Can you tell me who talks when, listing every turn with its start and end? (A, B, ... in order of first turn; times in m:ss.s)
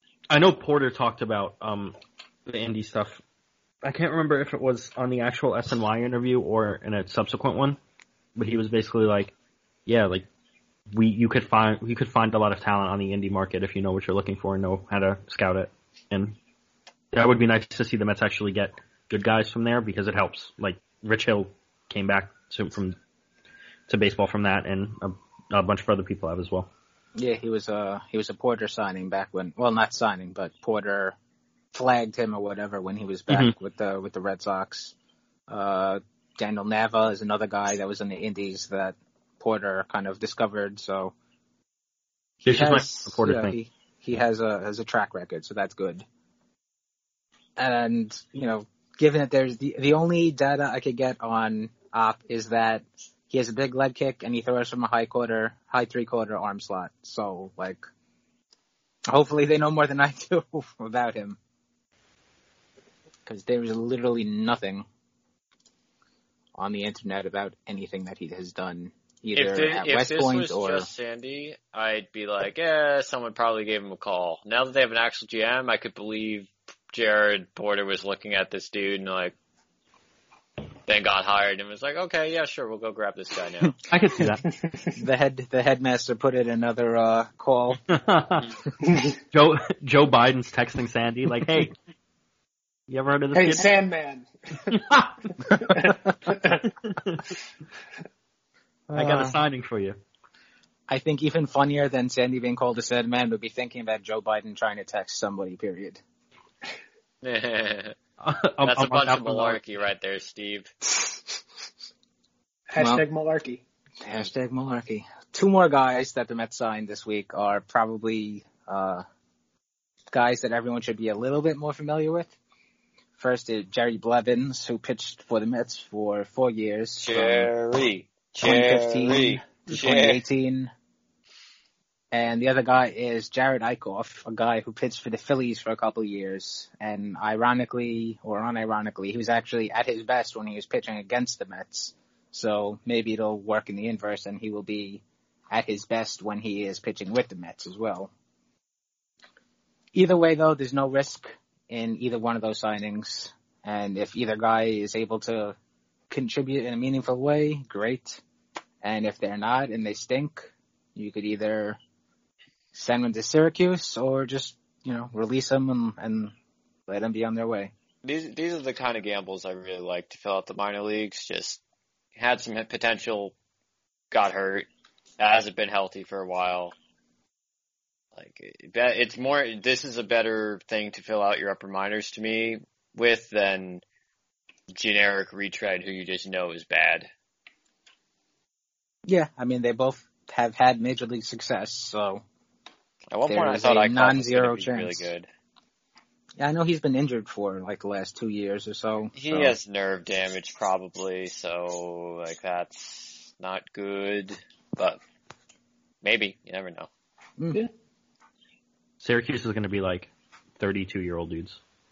0:00.3-0:03.2 A
0:03.8-0:07.8 A
0:08.4-0:09.3 A
0:09.8-0:10.3 A
0:10.9-0:16.4 A
0:17.1-0:23.0 A
0:23.9-0:26.7 A
0:27.2-0:31.2 B
0:31.7-0:34.9 B
0:33.3-0:33.5 A
0:35.5-0:41.1 B
0:42.4-0:43.6 A
0:42.4-0:46.0 B
0:47.6-0:57.8 B
0:59.1-1:01.4 B
1:03.2-1:04.8 B
1:06.6-1:10.9 B
1:09.3-1:19.3 C
1:20.9-1:23.8 C
1:23.9-1:24.4 A
1:24.5-1:24.7 D
1:25.0-1:27.8 B
1:27.9-1:28.5 A
1:28.8-1:29.2 D
1:29.3-1:31.7 A
1:32.9-1:33.7 A
1:33.3-1:34.8 D
1:35.6-1:36.6 D
1:38.9-1:39.4 B
1:38.9-1:40.0 A
1:40.9-1:46.0 B
1:47.2-1:48.0 C
1:48.2-1:49.6 A
1:48.6-1:50.7 C
1:52.7-1:53.6 D
1:52.8-1:53.0 B
1:54.0-1:59.0 B
2:00.1-2:02.3 B
2:03.2-2:07.5 B
2:07.0-2:10.2 C
2:08.4-2:10.7 B
2:12.1-2:28.1 B
2:29.9-2:35.6 B
2:36.1-2:38.2 B
2:38.8-2:41.8 B
2:42.7-2:46.3 B
2:46.9-2:47.7 B
2:48.0-2:51.6 C
2:52.1-2:53.3 C
2:54.1-2:54.7 C
2:55.2-2:56.7 C
2:58.1-3:03.8 C
3:04.7-3:07.1 C
3:09.1-3:12.2 B
3:13.1-3:15.3 C
3:13.3-3:15.1 B
3:16.4-3:19.5 B
3:19.1-3:25.0 C
3:26.0-3:26.9 C
3:29.0-3:31.6 A